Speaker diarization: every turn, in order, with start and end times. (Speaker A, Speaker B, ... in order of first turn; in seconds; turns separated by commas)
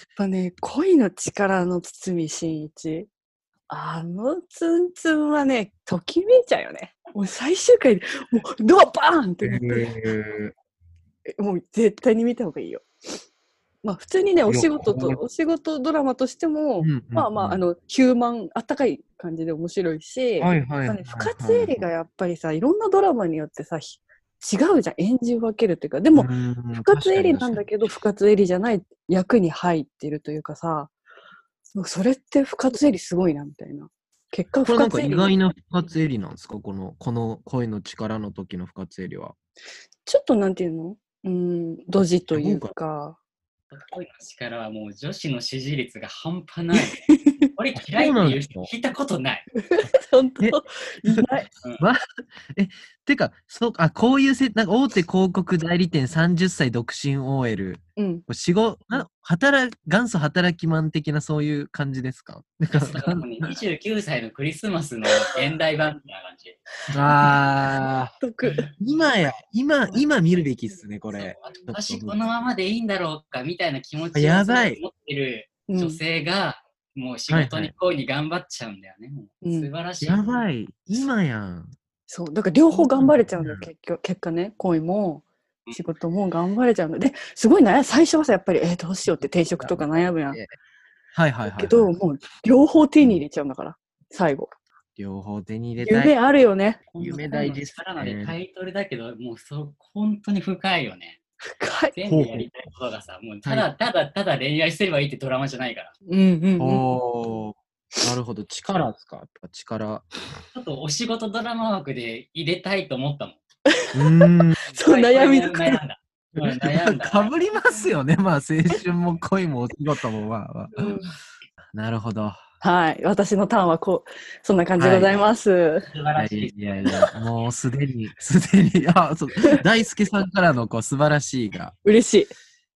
Speaker A: 0.1-3.1, Speaker A: 3.7-9.9, Speaker B: 9.4-10.5, Speaker A: 11.4-12.8, Speaker A: 13.8-30.9, Speaker B: 14.5-15.2, Speaker B: 16.8-17.6, Speaker B: 20.4-21.8, Speaker B: 26.1-27.6, Speaker A: 31.7-35.3, Speaker B: 34.6-39.3, Speaker A: 40.0-43.1, Speaker B: 42.3-42.7, Speaker C: 43.7-49.5, Speaker A: 46.7-47.5, Speaker B: 47.7-48.7, Speaker A: 49.6-51.5, Speaker B: 50.4-51.3, Speaker B: 52.5-63.6, Speaker A: 58.0-58.2, Speaker C: 62.7-66.6, Speaker B: 66.9-68.1, Speaker A: 68.2-68.7, Speaker B: 68.8-72.2, Speaker C: 71.1-80.4, Speaker B: 74.1-74.8, Speaker A: 75.7-76.0, Speaker B: 77.3-77.7, Speaker A: 79.4-79.7, Speaker B: 80.0-81.7, Speaker A: 82.1-90.4, Speaker B: 82.7-83.7, Speaker B: 89.1-90.5, Speaker B: 91.1-91.9, Speaker A: 91.5-94.5, Speaker B: 95.0-96.1, Speaker A: 95.8-96.9, Speaker C: 96.9-101.2, Speaker B: 97.0-98.3, Speaker A: 101.5-101.9, Speaker C: 101.9-105.9, Speaker B: 102.1-102.5, Speaker A: 106.1-106.9, Speaker B: 106.6-110.0, Speaker C: 110.5-113.4, Speaker A: 113.7-115.8, Speaker B: 113.9-114.7, Speaker C: 114.8-117.3, Speaker B: 116.3-120.9, Speaker A: 120.7-121.1, Speaker B: 121.7-122.4, Speaker A: 122.6-125.9, Speaker B: 124.8-125.2, Speaker C: 125.9-127.0, Speaker B: 126.2-131.7, Speaker A: 131.8-132.3